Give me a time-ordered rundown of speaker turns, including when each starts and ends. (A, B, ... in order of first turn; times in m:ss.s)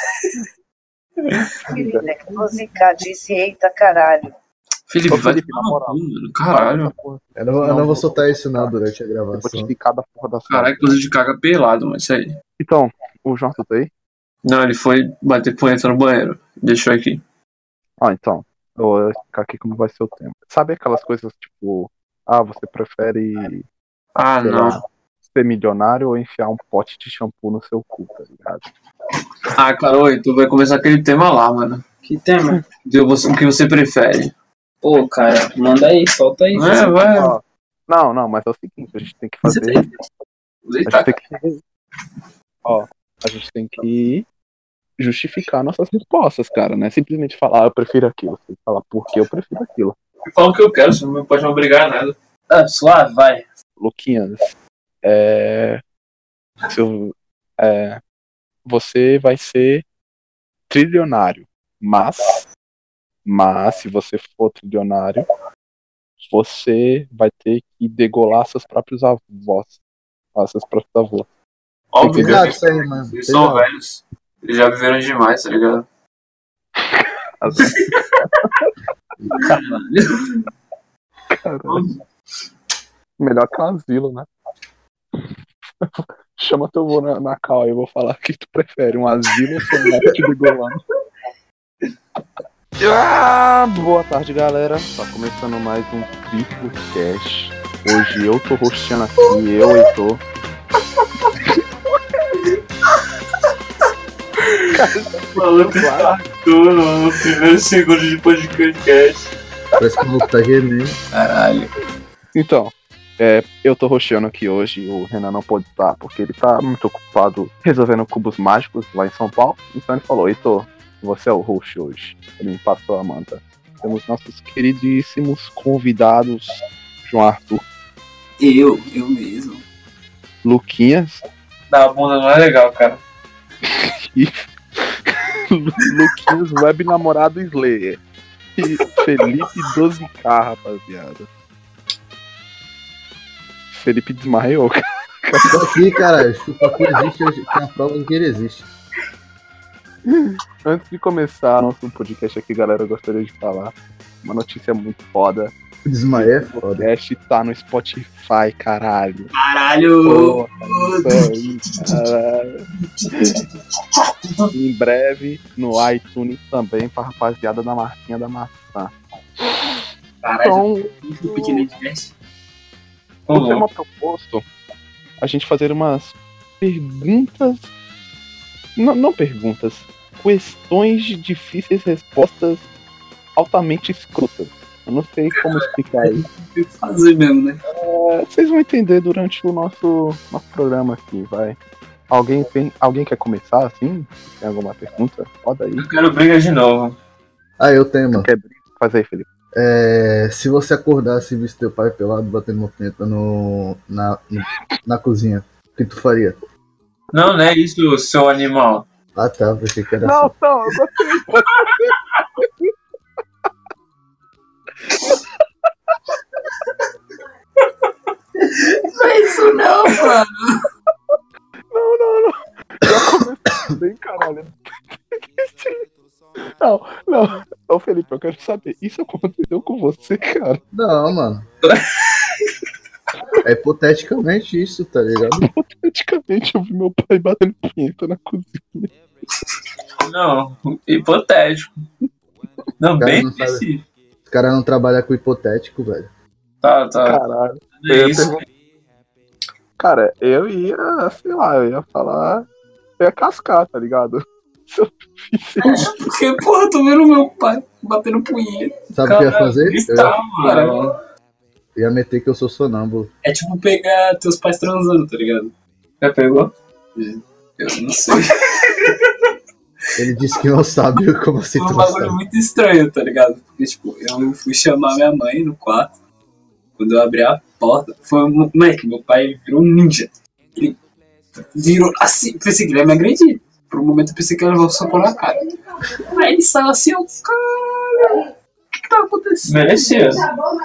0:01.7-0:02.4 A
0:01.7-0:04.3 B
0:04.9-0:06.9 C
0:05.1-0:08.7 A
0:07.4-0:09.7 D
0:09.3-0:11.0 A
0:10.5-0:12.4 C
0:12.6-0:13.9 A
0:14.4-0:17.2 C
0:18.0-0:23.7 A
0:24.2-0:24.8 C
0:24.4-0:28.7 A
0:29.6-0:31.8 C
0:32.0-0:32.6 E
0:32.8-0:34.3 C
0:34.8-0:37.1 E
0:36.5-0:37.4 C
0:37.1-0:39.8 A
0:39.4-0:40.0 E
0:40.7-0:41.0 E
0:40.8-0:41.6 A
0:42.6-0:44.3 A
0:45.0-0:50.0 A
0:50.2-0:52.2 C
0:52.5-0:53.5 E
0:53.8-0:54.4 A
0:55.0-0:55.8 A
0:56.7-0:58.0 A
0:58.7-0:59.8 A
1:00.7-1:02.4 A
1:03.2-1:05.3 A
1:06.2-1:09.8 A
1:10.3-1:11.3 A
1:11.9-1:15.8 C
1:12.0-1:12.5 A
1:12.1-1:13.6 D
1:17.0-1:18.6 A
1:17.6-1:18.2 C
1:19.3-1:20.4 C
1:19.4-1:19.8 E
1:21.3-1:21.9 A
1:21.7-1:22.0 C
1:23.2-1:24.3 A
1:25.8-1:30.8 A
1:32.8-1:40.2 A
1:44.7-1:46.2 A
1:45.4-1:49.3 C
1:49.8-1:51.0 D
1:51.1-1:51.7 C
1:52.3-2:06.5 A
2:07.0-2:07.6 A
2:08.4-2:09.6 E
2:10.4-2:11.2 A
2:11.7-2:13.0 C
2:13.6-2:18.0 A
2:18.6-2:21.3 A
2:23.7-2:25.7 A
2:25.5-2:28.7 D
2:30.0-2:35.5 A
2:35.8-2:36.9 D
2:36.2-2:39.3 A
2:39.3-2:42.0 E
2:40.0-2:43.4 A
2:43.0-2:43.4 E
2:44.5-2:49.8 A
2:50.2-2:52.1 E
2:50.4-2:51.6 A
2:53.3-2:53.6 C
2:53.3-2:54.4 A
2:55.2-2:57.7 A
2:58.8-3:02.6 A
3:03.4-3:06.2 A
3:05.3-3:07.6 E
3:07.7-3:11.6 A
3:12.1-3:15.9 A
3:15.8-3:17.0 C
3:17.6-3:18.3 D
3:18.1-3:19.3 A
3:19.5-3:26.4 D
3:27.1-3:28.9 C
3:29.1-3:30.4 D
3:30.0-3:32.7 A
3:34.9-3:35.2 A
3:38.5-3:40.7 E
3:41.7-3:45.8 A
3:46.6-3:50.6 A
3:50.7-3:51.5 D
3:51.6-3:52.0 C
3:53.4-3:55.5 D
3:55.4-3:58.9 A
4:00.0-4:01.8 C
4:02.8-4:03.7 C
4:03.0-4:03.6 D
4:03.3-4:03.8 E
4:04.2-4:06.1 D
4:06.6-4:07.2 C
4:07.1-4:08.4 A
4:07.8-4:08.4 C
4:09.8-4:12.4 A
4:13.0-4:15.9 A
4:15.6-4:18.8 E
4:18.9-4:20.2 D
4:19.0-4:20.9 C
4:20.4-4:20.8 E
4:21.8-4:23.1 D
4:23.2-4:25.5 E
4:26.0-4:26.5 C
4:26.9-4:28.6 E
4:30.0-4:32.2 D
4:31.6-4:35.9 E
4:36.8-4:40.8 E
4:41.6-4:50.4 E
4:49.5-4:50.2 C